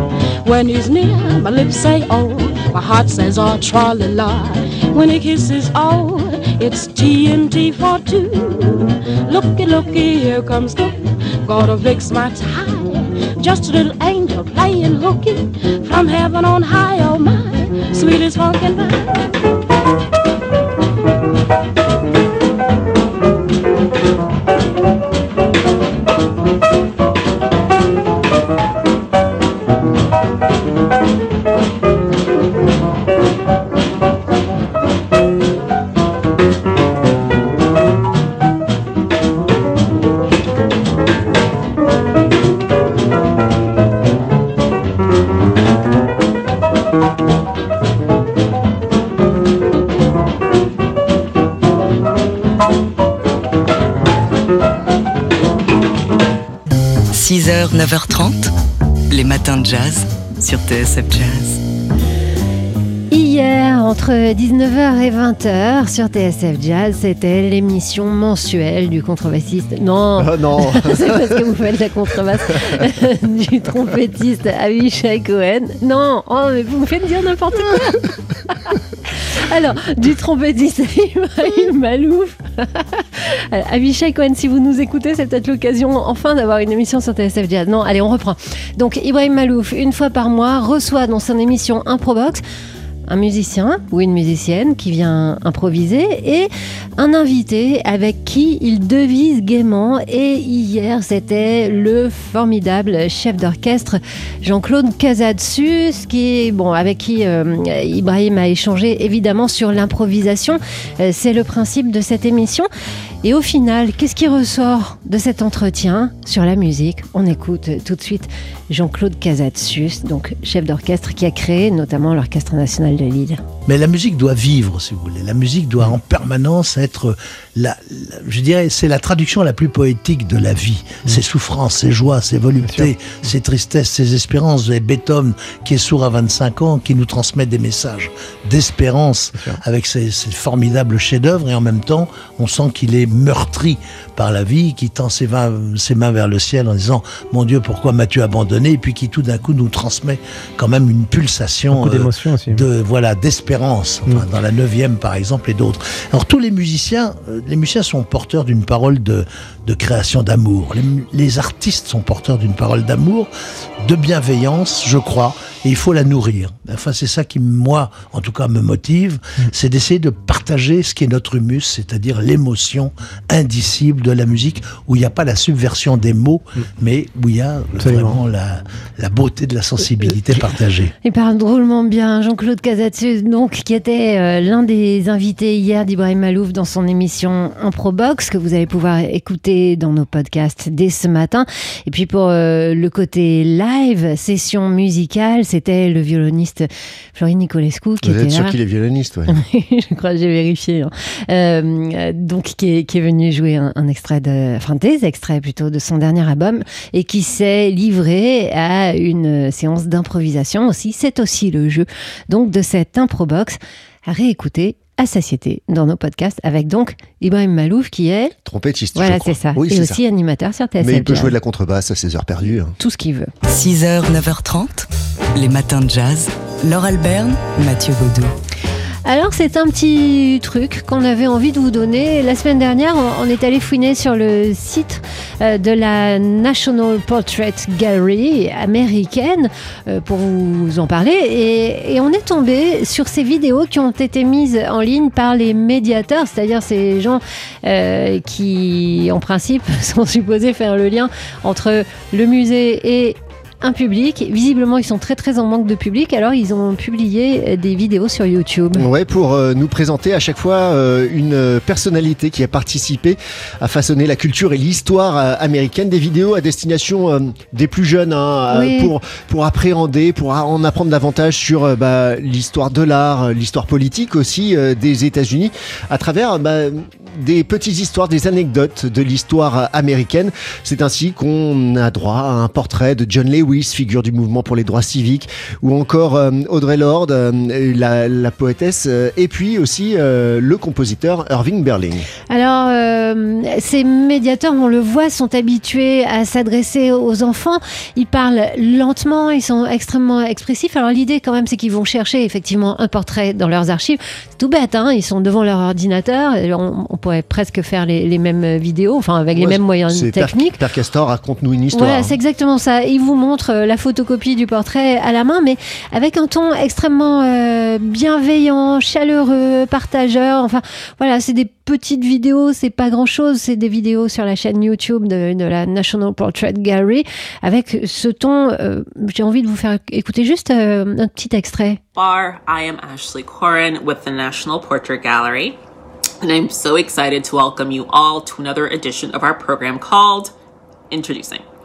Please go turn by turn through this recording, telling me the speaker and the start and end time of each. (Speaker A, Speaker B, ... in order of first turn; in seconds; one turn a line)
Speaker A: 0.4-19.3
Speaker B: 57.1-58.5
Speaker B: 59.1-61.6
Speaker C: 63.1-78.8
Speaker D: 70.2-71.5
Speaker C: 79.3-92.4
Speaker C: 93.1-112.7
Speaker C: 113.2-123.4
Speaker E: 123.7-163.3
Speaker E: 163.8-180.9
Speaker C: 181.0-198.6
Speaker D: 198.0-199.3
Speaker C: 199.3-218.3
Speaker D: 218.5-220.0
Speaker C: 218.9-221.3
Speaker D: 220.8-222.8
Speaker C: 222.8-223.3
Speaker B: 223.5-228.3
Speaker C: 229.1-258.8
Speaker D: 258.7-292.1
Speaker C: 268.5-268.9
Speaker C: 292.3-310.6
Speaker D: 309.4-312.2
Speaker C: 311.7-331.8
Speaker F: 332.0-335.6
Speaker F: 336.2-340.3
Speaker F: 340.9-341.4